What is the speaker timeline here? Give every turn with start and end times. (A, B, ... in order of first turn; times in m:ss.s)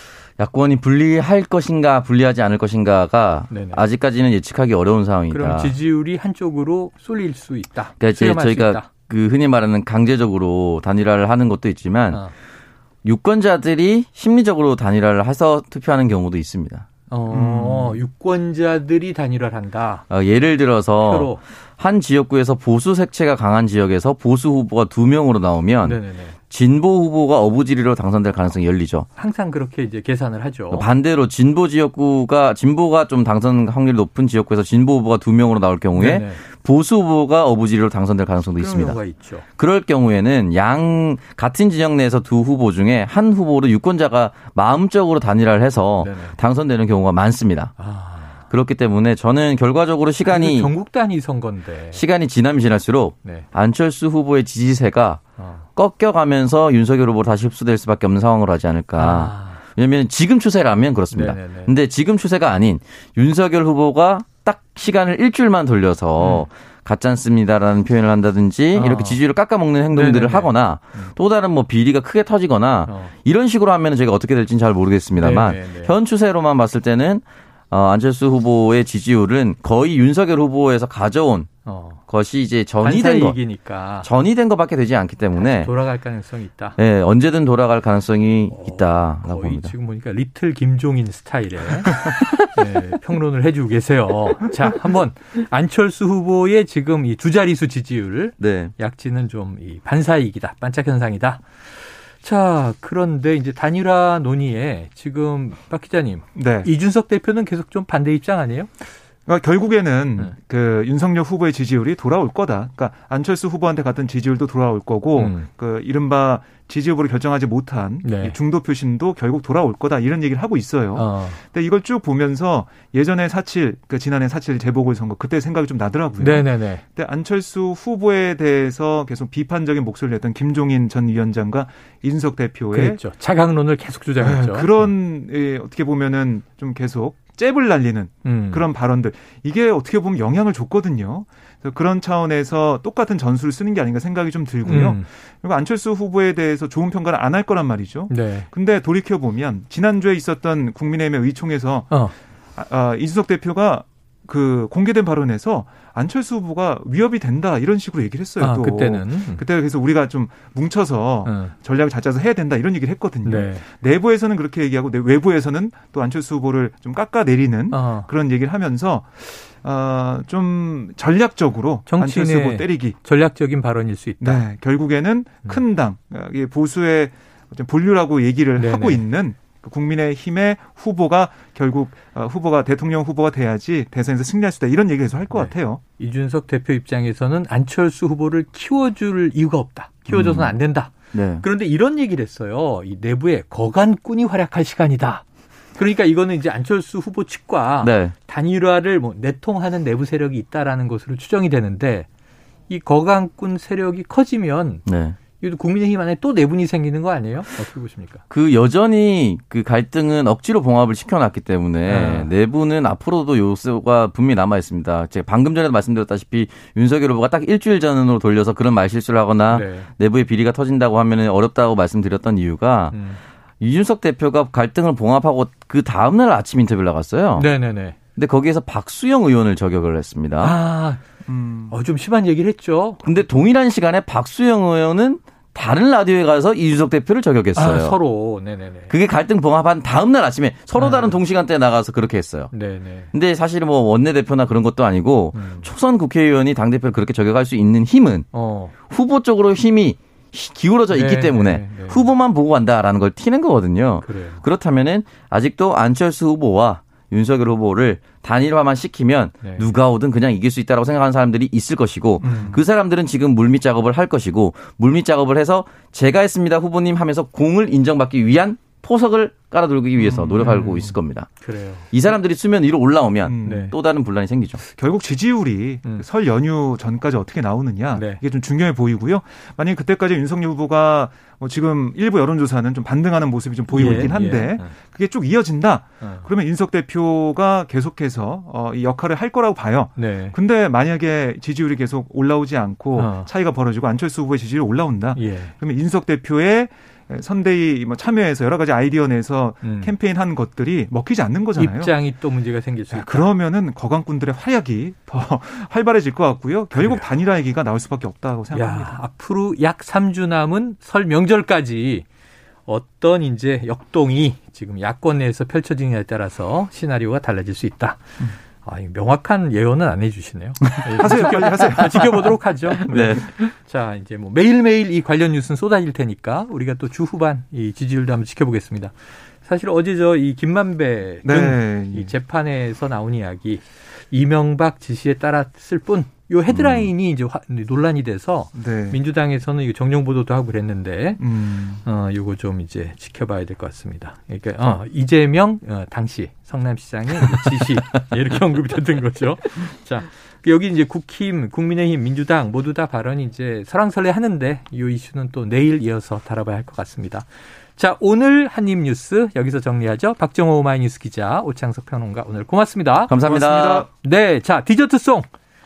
0:00.4-0:05.7 A
0:03.5-0:03.8 B
0:05.3-0:08.9 B
0:08.0-0:12.2 A
0:13.0-0:16.9 A
0:17.1-0:20.0 B
0:17.3-0:18.0 C
0:20.1-0:26.0 A
0:21.0-0:21.4 B
0:25.8-0:26.4 B
0:26.5-0:29.1 A
0:29.2-0:30.8 B
0:30.7-0:39.0 A
0:36.0-0:36.4 B
0:38.6-0:39.4 B
0:39.6-0:47.7 A
0:46.0-0:46.4 B
0:47.8-0:48.4 B
0:48.5-0:50.7 A
0:50.3-0:52.0 B
0:51.9-0:55.2 A
0:55.4-0:55.7 B
0:55.8-1:21.5 A
0:59.0-0:59.6 B
1:01.1-1:01.7 B
1:06.2-1:06.4 B
1:08.7-1:09.2 B
1:09.9-1:11.1 B
1:12.8-1:13.1 B
1:15.2-1:15.9 B
1:21.6-1:22.0 B
1:22.1-1:23.4 A
1:22.8-1:24.1 B
1:24.0-1:25.7 A
1:25.4-1:26.8 B
1:26.8-1:29.7 A
1:28.5-1:48.7 B
1:38.4-1:38.7 A
1:46.4-1:46.7 C
1:49.2-2:13.0 C
1:55.2-1:55.5 B
1:58.0-1:58.3 B
2:01.0-2:01.4 B
2:06.2-2:06.8 B
2:12.7-2:14.9 B
2:14.2-2:32.0 C
2:18.2-2:18.6 B
2:24.6-2:25.1 B
2:28.1-2:28.5 B
2:32.6-2:53.0 C
2:38.4-2:39.4 B
2:41.2-2:41.5 B
2:43.2-2:43.6 B
2:47.7-2:48.1 B
2:51.9-2:54.4 B
2:54.2-3:05.8 C
2:58.6-2:59.0 B
3:05.3-3:15.2 B
3:10.1-3:10.6 A
3:11.1-3:11.4 A
3:15.8-3:22.1 B
3:17.8-3:18.1 A
3:22.7-3:24.8 B
3:24.8-3:25.2 A
3:25.4-3:28.2 B
3:28.3-3:43.0 A
3:31.8-3:32.3 B
3:39.5-3:39.9 B
3:42.9-3:43.2 B
3:43.6-3:47.5 A
3:47.4-3:48.0 B
3:48.2-3:50.5 A
3:50.4-3:51.0 B
3:51.3-3:51.7 C
3:51.7-3:53.0 B
3:53.0-3:58.0 A
3:57.6-3:58.9 B
3:58.9-4:02.5 A
4:00.7-4:01.2 B
4:02.5-4:03.1 B
4:03.1-4:08.2 A
4:05.3-4:05.7 B
4:08.3-4:08.7 B
4:08.8-4:31.3 A
4:10.9-4:12.1 B
4:14.0-4:14.4 B
4:22.2-4:22.6 B
4:22.2-4:22.5 C
4:30.0-4:30.8 C
4:30.2-4:31.9 B
4:31.9-4:34.6 A
4:33.2-4:33.7 C
4:33.4-4:33.7 B
4:34.7-5:01.9 C
4:37.9-4:38.2 B
4:43.7-4:44.7 B
4:46.0-4:46.3 B
4:50.0-4:50.4 B
4:53.0-4:53.3 B
4:55.2-4:55.5 B
4:59.6-4:59.9 B
5:01.6-5:03.3 B
5:02.9-5:08.9 C
5:06.7-5:07.0 B
5:08.5-5:12.0 B
5:12.6-5:18.0 B
5:18.6-5:41.2 B
5:20.8-5:22.3 C
5:22.9-5:23.2 A
5:31.2-5:32.1 C
5:36.5-5:36.9 A
5:38.6-5:39.0 C
5:41.2-5:41.8 C
5:41.8-6:03.1 B
6:03.1-6:03.9 A
6:03.2-6:03.9 C
6:03.9-6:05.3 B